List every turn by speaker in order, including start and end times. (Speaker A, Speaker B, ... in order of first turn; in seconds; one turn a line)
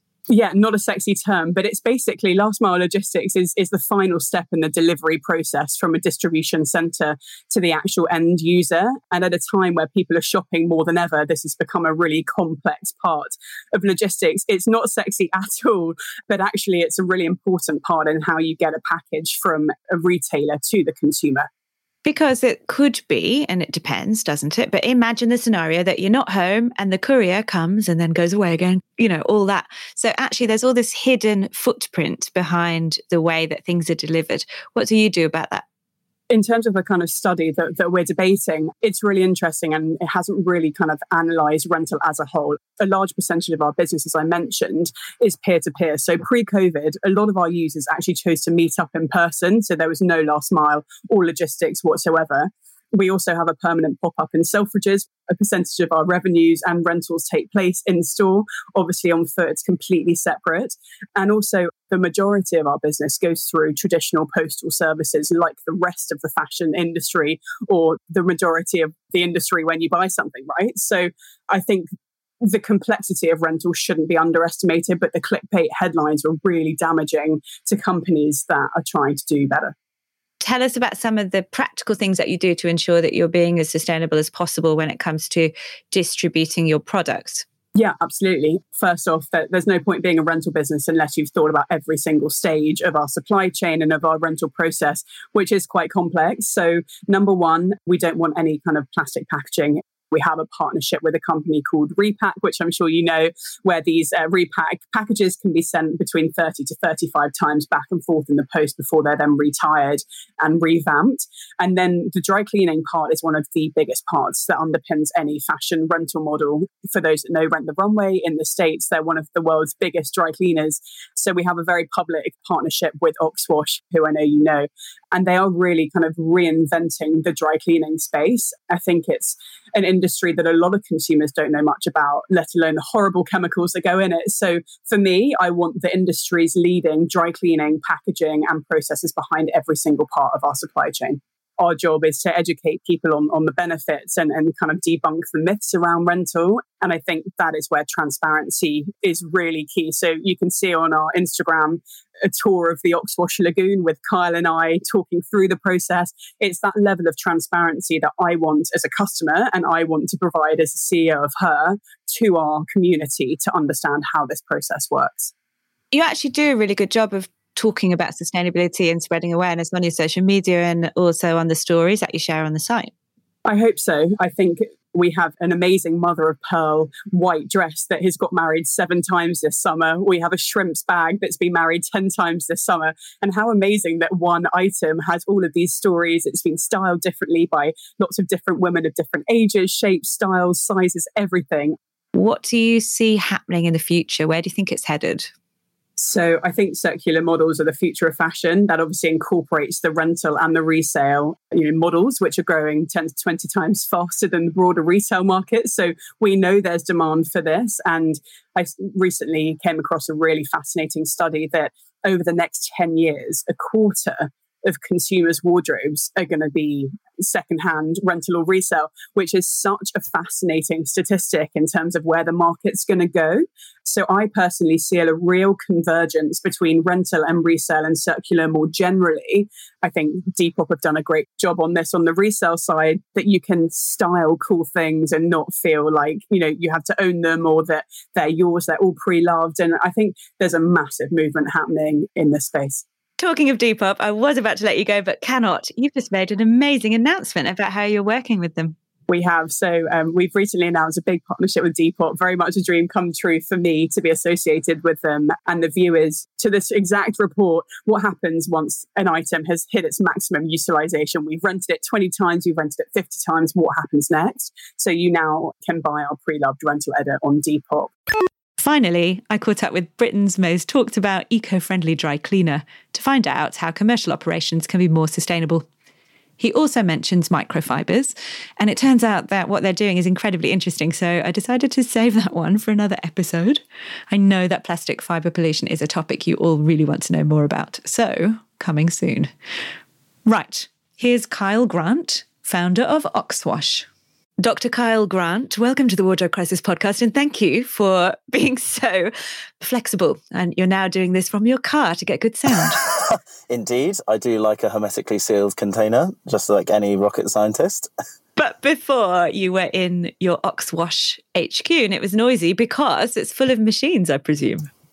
Speaker A: 0.3-21.5
Speaker B: 22.1-35.6
Speaker A: 36.3-71.9
Speaker A: 72.4-79.7
Speaker B: 80.4-87.5
Speaker A: 87.8-165.3
Speaker B: 165.9-172.9
Speaker A: 173.5-191.8
Speaker B: 192.2-195.3
Speaker A: 196.0-242.8
Speaker B: 243.2-248.8
Speaker A: 249.1-267.9
Speaker B: 268.6-275.7
Speaker B: 276.4-289.3
Speaker B: 290.3-293.9
Speaker B: 294.4-302.8
Speaker C: 302.7-307.9
Speaker B: 308.4-314.7